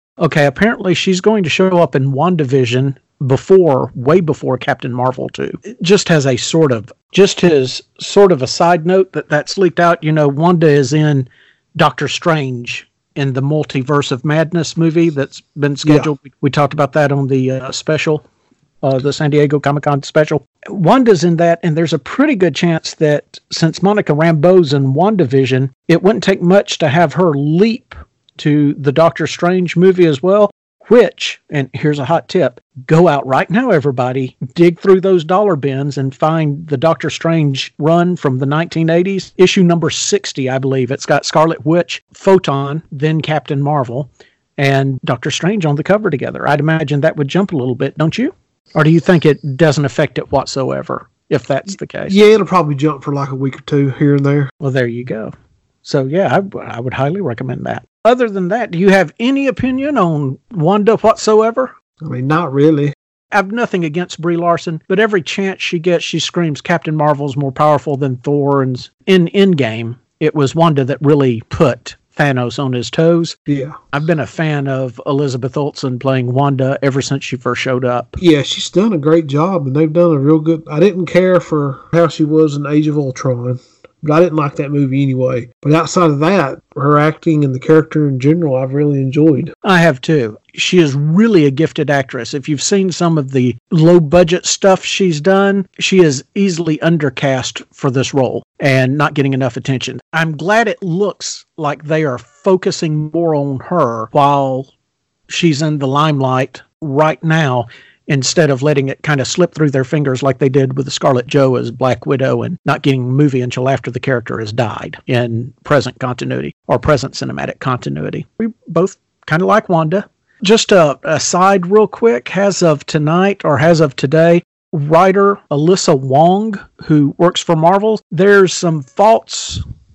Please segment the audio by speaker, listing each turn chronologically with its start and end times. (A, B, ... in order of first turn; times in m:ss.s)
0:00.2-0:18.2 A
0:18.8-0:52.1 A
0:52.1-0:54.5 B
0:54.6-0:55.3 A
0:55.8-1:01.7 A
1:02.0-1:02.9 B
1:03.3-1:13.4 A
1:13.5-1:13.8 B
1:13.9-1:18.2 A
1:18.2-1:29.5 B
1:29.6-1:44.7 A
1:45.3-2:09.6 A